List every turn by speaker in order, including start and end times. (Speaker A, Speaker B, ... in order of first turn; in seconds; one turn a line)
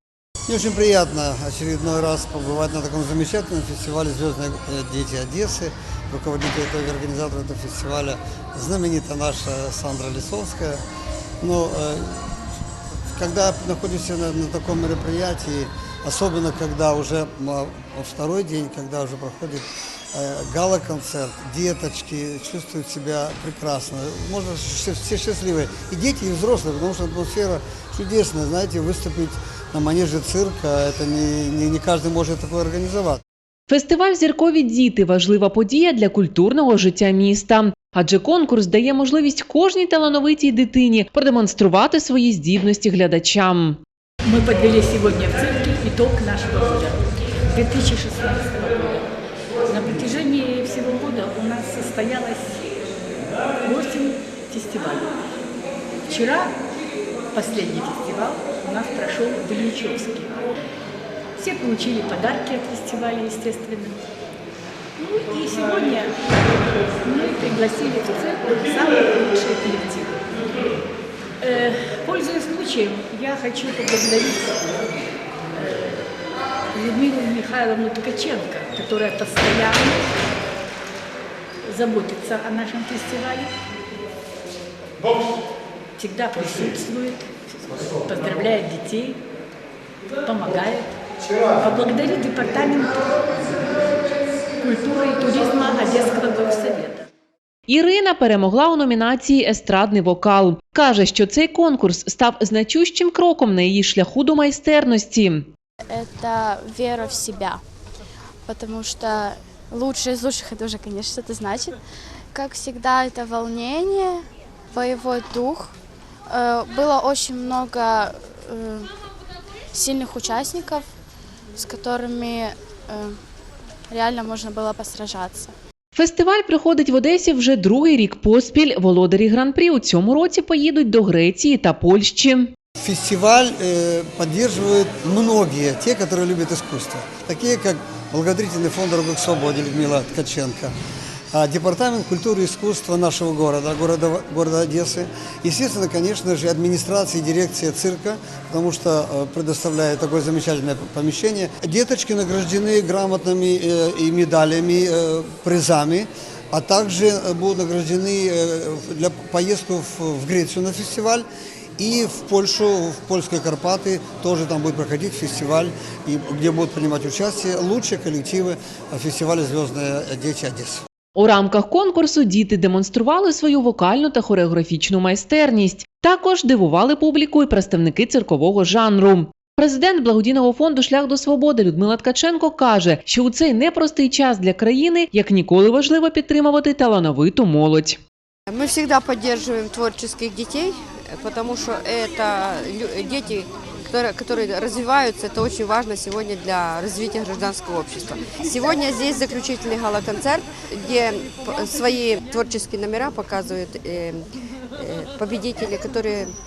Speaker A: 0.5-10.8
Speaker A: 11.4-12.3
Speaker A: 13.1-33.2
Speaker B: 33.7-43.8
Speaker C: 44.2-49.1
Speaker C: 49.6-52.8
Speaker C: 53.6-55.1
Speaker C: 56.1-56.6
Speaker C: 57.3-60.4
Speaker C: 61.4-64.0
Speaker C: 65.0-70.7
Speaker C: 71.4-74.8
Speaker C: 75.5-76.1
Speaker C: 76.7-80.0
Speaker C: 81.6-83.5
Speaker C: 86.0-89.2
Speaker C: 90.2-97.1
Speaker B: 97.7-105.5
Speaker D: 105.9-107.6
Speaker D: 108.5-111.8
Speaker D: 112.3-115.7
Speaker D: 116.3-118.9
Speaker D: 119.7-120.8
Speaker D: 121.6-123.2
Speaker D: 123.9-125.5
Speaker B: 125.9-132.5
Speaker A: 132.8-140.7
Speaker A: 141.3-161.2
Speaker A: 161.8-170.8
Speaker B: 171.1-188.0
Speaker E: 188.5-204.2
Speaker E: 204.8-206.3